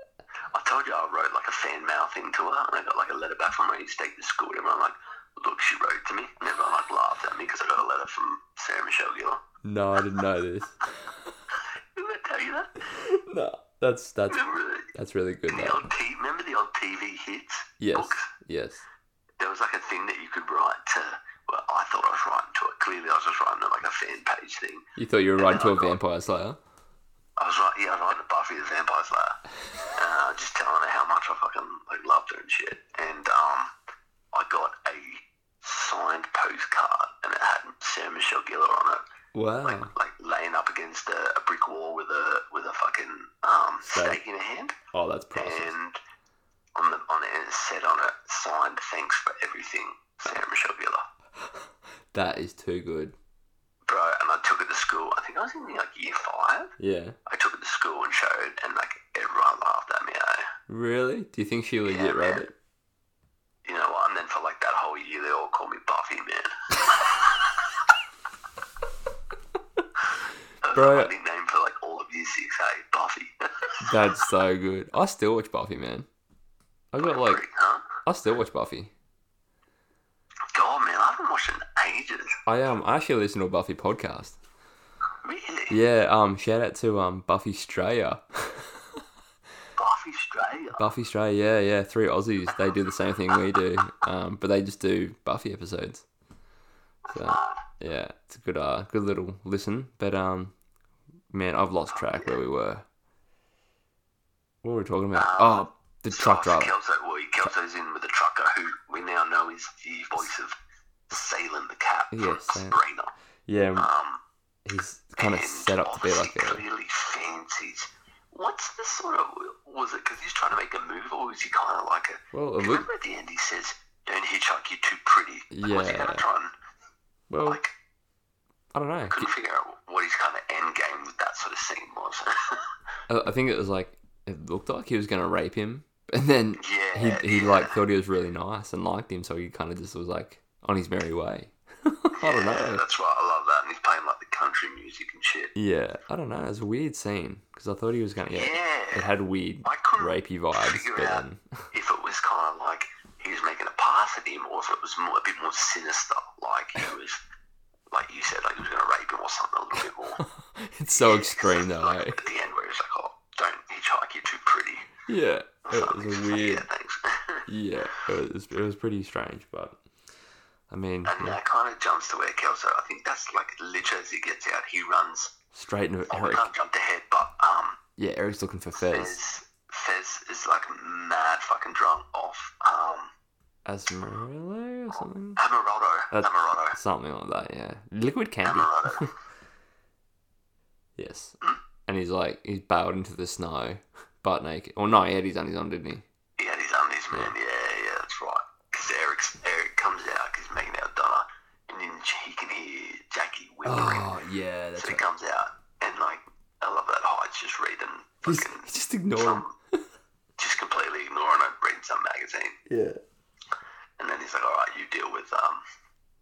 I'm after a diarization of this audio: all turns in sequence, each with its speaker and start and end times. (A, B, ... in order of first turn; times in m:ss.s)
0:00.5-0:09.4 A
0:09.6-0:11.3 B
0:12.0-0:12.8 A
0:12.9-0:15.9 B
0:14.3-0:14.9 A
0:15.5-0:18.3 A
0:17.8-0:18.8 B
0:19.4-0:24.8 A
0:25.0-0:26.6 B
0:25.4-0:26.0 A
0:27.4-0:29.4 A
0:29.9-0:33.7 A
0:34.3-0:39.0 A
0:39.3-0:39.9 B
0:39.6-0:44.8 A
0:43.8-0:44.2 B
0:44.9-0:45.7 B
0:45.4-0:46.0 A
0:46.8-0:51.0 A
0:52.1-0:53.2 B
0:53.9-0:56.7 A
0:56.8-0:57.2 B
0:57.3-1:00.5 A
1:00.7-1:02.5 B
1:01.9-1:02.5 A
1:03.7-1:07.7 A
1:10.6-1:13.8 A
1:10.7-1:11.1 B
1:13.8-1:16.1 B
1:16.9-1:17.4 B
1:17.0-1:17.8 A
1:18.0-1:18.9 B
1:20.5-1:22.4 A
1:22.5-1:24.4 B
1:25.2-1:25.8 A
1:25.7-1:29.0 B
1:29.8-1:30.8 A
1:30.8-1:36.0 B
1:37.1-1:37.7 A
1:37.1-1:40.5 B
1:41.3-1:42.8 B
1:42.0-1:42.4 A
1:44.6-1:46.7 B
1:45.1-1:50.6 A
1:51.1-1:53.1 A
1:52.1-1:52.8 B
1:53.5-1:53.9 B
1:53.8-1:54.2 A
1:54.6-1:56.6 B
1:55.2-2:06.5 A
2:02.3-2:02.9 B
2:05.5-2:06.2 B
2:07.3-2:07.6 B
2:07.4-2:07.7 A
2:08.7-2:09.3 B
2:09.1-2:12.6 A
2:13.1-2:22.8 B
2:16.6-2:17.8 A
2:22.2-2:25.5 A
2:25.6-2:31.5 B
2:28.3-2:29.1 A
2:29.6-2:37.2 A
2:37.9-2:40.2 A
2:40.4-2:42.2 B
2:40.9-2:44.9 A
2:45.1-2:46.6 B
2:45.7-2:47.5 A
2:47.5-2:49.8 B
2:50.7-2:51.4 B
2:51.0-2:55.3 A
2:55.5-2:56.5 B
2:56.1-2:57.8 A
2:58.0-2:59.2 B
2:58.8-3:03.1 A
3:03.7-3:05.4 B
3:05.4-3:06.8 A
3:06.1-3:09.1 B
3:08.4-3:09.1 A
3:11.0-3:11.4 B
3:11.9-3:16.0 B
3:16.4-3:24.2 A
3:23.6-3:25.1 B
3:24.8-3:29.5 A
3:28.2-3:29.5 B
3:30.4-3:32.6 A
3:32.7-3:33.0 B
3:34.0-3:35.6 A